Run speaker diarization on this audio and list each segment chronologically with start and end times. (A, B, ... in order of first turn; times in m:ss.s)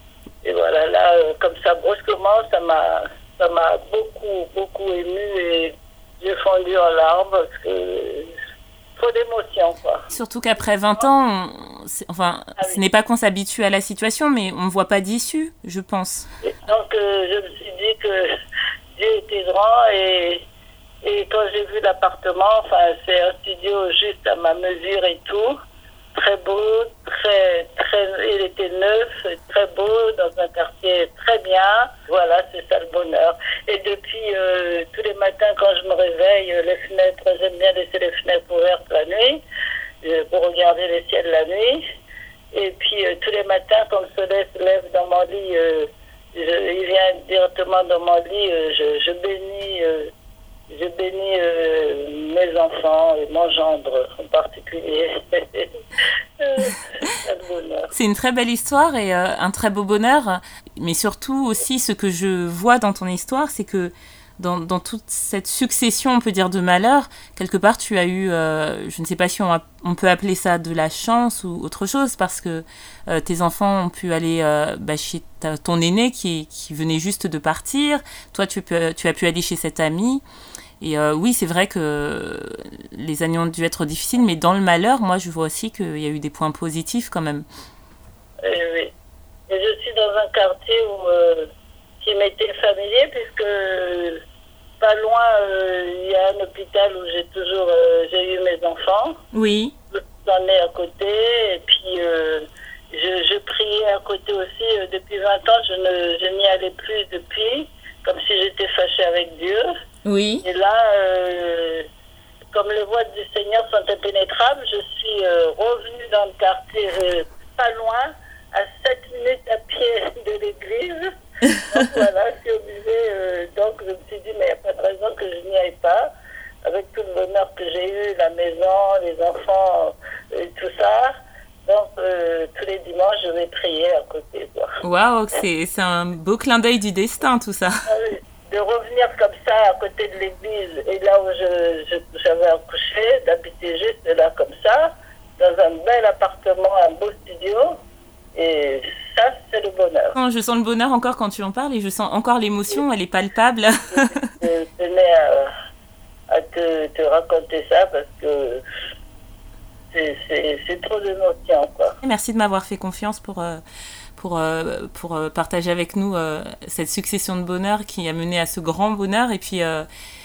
0:00.4-0:08.3 A
0:08.9-0:10.0 A
0:10.1-0:16.2 B
0:16.4-0:18.3 A
0:18.9-0:20.4 A
0:21.0-0:25.6 A
0:26.1-0:39.4 A
0:40.0-0:41.8 A
0:42.5-0:50.1 A
0:50.7-0:55.7 A
0:56.4-0:57.9 A
0:57.9-1:20.2 B
1:20.8-1:27.4 B
1:28.4-1:28.9 A
1:29.5-1:31.5 A
1:32.0-1:34.2 A
1:34.8-1:39.2 A
1:39.3-1:39.7 B
1:39.9-1:49.7 A
1:50.0-1:50.4 B
1:50.4-1:51.9 A
1:52.5-2:06.1 A
2:06.6-2:11.1 A
2:11.6-2:14.7 A
2:14.8-2:17.7 B
2:17.9-2:27.8 A
2:28.3-2:30.1 A
2:30.1-2:34.2 B
2:33.9-2:35.5 A
2:36.3-2:38.6 A
2:39.9-2:42.0 A
2:42.0-2:43.6 B
2:44.2-2:49.9 B